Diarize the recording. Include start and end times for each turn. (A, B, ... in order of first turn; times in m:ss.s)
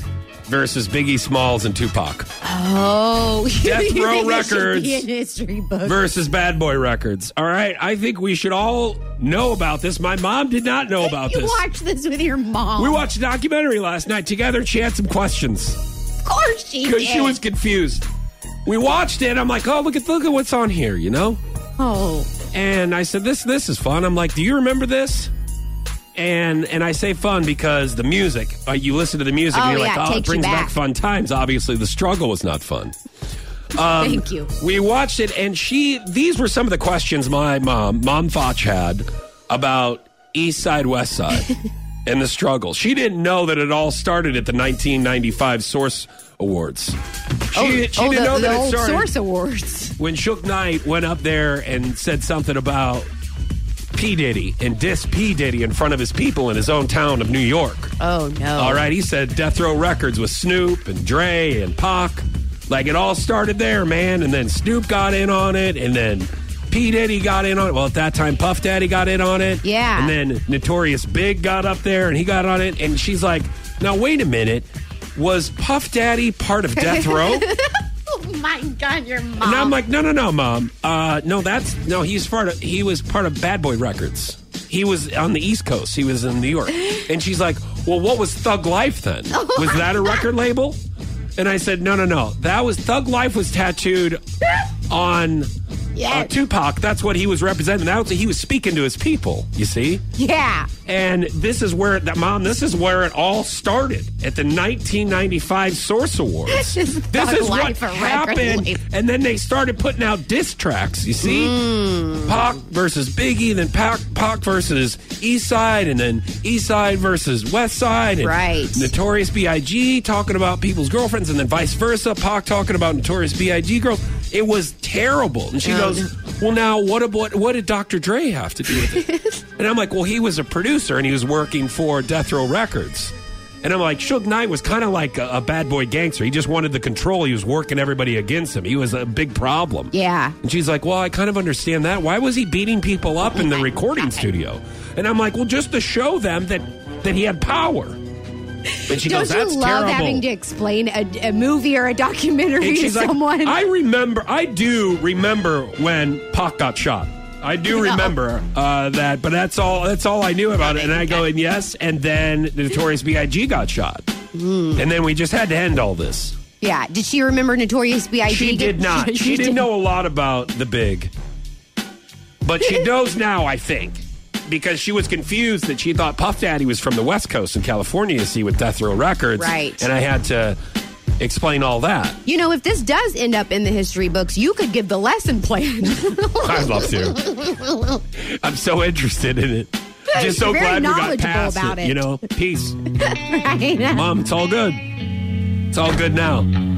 0:00.5-0:02.3 A
0:02.4-0:06.1 B
0:03.6-0:05.0 A
0:05.8-0:11.6 A
0:11.0-0:13.0 B
0:12.8-0:15.8 A
0:16.2-0:17.4 B
0:16.8-0:18.0 A
0:18.6-0:21.4 A
0:21.8-0:22.3 B
0:22.5-0:25.3 A
0:26.2-0:32.9 A
0:29.5-0:30.7 B
0:33.7-0:47.0 A
0:33.9-0:34.5 B
0:47.5-0:49.1 A
0:47.5-0:50.0 B
0:50.0-0:53.1 A
0:53.9-0:57.9 A
0:58.0-0:58.9 B
0:58.6-1:17.5 A
1:09.6-1:10.1 B
1:16.8-1:19.8 B
1:19.4-1:30.8 A
1:29.3-1:30.2 B
1:31.4-1:34.2 A
1:34.9-1:35.5 A
1:36.0-1:36.3 B
1:36.1-1:40.0 A
1:40.1-1:40.7 B
1:40.8-1:51.6 A
1:46.5-1:48.8 B
1:51.2-1:52.4 B
1:52.2-2:28.0 A
1:58.2-1:58.9 B
2:05.6-2:06.0 B
2:19.9-2:20.4 B
2:23.4-2:24.2 B
2:28.8-2:33.6 B
2:28.9-2:30.2 A
2:32.6-2:44.1 A
2:37.7-2:38.1 B
2:40.6-2:41.2 B
2:44.3-2:44.8 B
2:44.8-2:46.4 A
2:46.6-2:49.7 B
2:48.2-2:51.1 A
2:52.4-3:00.6 A
2:59.4-2:59.9 B
3:01.2-3:02.2 A
3:02.2-3:08.0 B
3:06.3-3:07.2 A
3:08.1-3:12.8 A
3:10.1-3:12.0 B
3:12.9-3:14.1 B
3:13.9-3:15.0 A
3:15.7-3:16.5 A